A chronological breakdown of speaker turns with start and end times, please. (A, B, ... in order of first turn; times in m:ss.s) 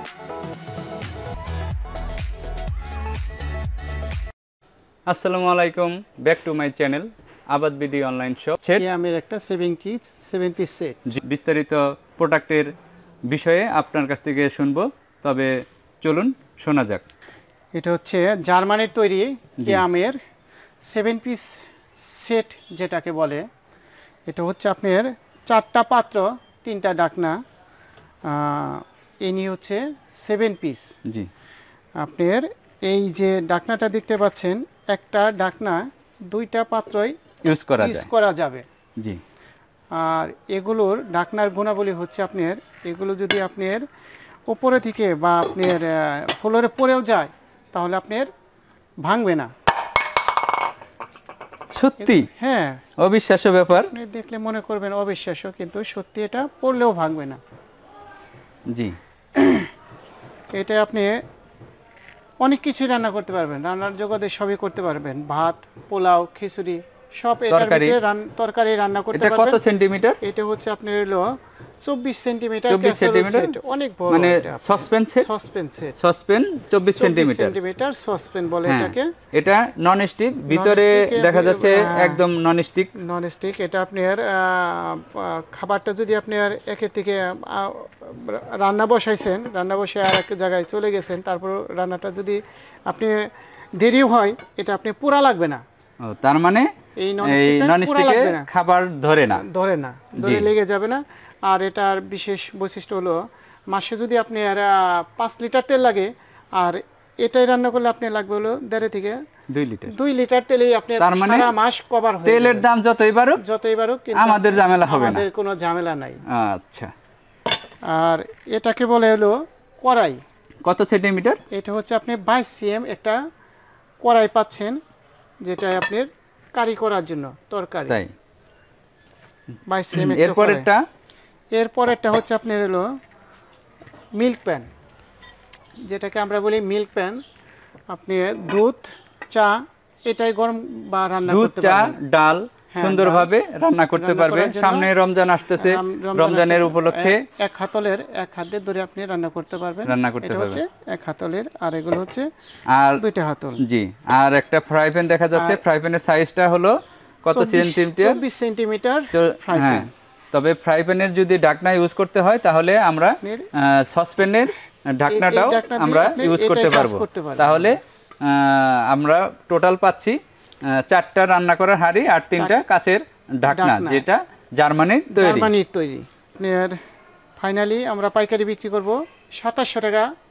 0:05.1-0:08.8 A
0:08.8-0:11.0 B
0:11.1-0:12.7 A
0:13.3-0:17.0 A
0:17.7-0:20.2 B
0:19.6-0:19.8 A
0:20.9-0:23.4 B
0:24.3-0:27.4 B
0:28.3-0:30.9 B
0:32.0-0:37.2 B
0:37.4-0:38.1 A
0:37.8-0:38.6 B
0:39.9-0:43.8 B
0:44.5-0:48.3 B
0:49.0-0:49.5 B
0:51.7-0:52.3 A
0:52.0-0:52.8 B
0:53.0-0:53.9 A
0:53.9-0:57.4 B
0:58.7-0:58.9 A
0:59.4-0:59.6 B
1:00.5-1:01.1 B
1:02.4-1:09.6 B
1:07.5-1:08.0 A
1:09.1-1:10.2 A
1:10.2-1:14.7 B
1:12.7-1:15.3 A
1:15.2-1:15.9 B
1:16.0-1:17.6 A
1:17.0-1:19.1 B
1:18.6-1:23.0 A
1:20.5-1:22.2 B
1:23.0-1:35.6 B
1:36.0-1:36.7 A
1:37.0-1:38.5 B
1:37.2-1:39.4 A
1:39.3-1:43.2 B
1:40.2-1:40.5 A
1:43.7-1:49.2 B
1:49.5-1:49.9 A
1:49.9-1:52.6 B
1:51.0-1:51.5 A
1:52.2-1:53.4 A
1:53.4-1:56.2 B
1:54.1-1:55.3 A
1:56.3-1:56.9 A
1:57.9-2:00.2 B
2:00.6-2:01.4 A
2:01.5-2:03.2 B
2:04.0-2:04.8 B
2:05.4-2:08.0 B
2:09.7-2:10.7 B
2:09.9-2:10.8 A
2:11.5-2:12.9 B
2:14.2-2:14.7 B
2:15.8-2:17.2 B
2:17.9-2:21.9 B
2:21.2-2:27.2 A
2:22.7-2:23.3 B
2:23.9-2:24.9 B
2:25.6-2:32.3 B
2:29.8-2:30.6 A
2:32.7-2:33.0 A
2:33.0-2:33.6 B
2:33.6-2:38.2 A
2:35.3-2:35.6 B
2:37.3-2:39.9 B
2:39.1-2:55.5 A
2:43.2-2:43.5 B
2:45.1-2:47.6 B
2:52.4-2:52.6 B
2:53.5-2:54.0 B
2:55.1-2:56.8 B
2:57.4-3:00.1 B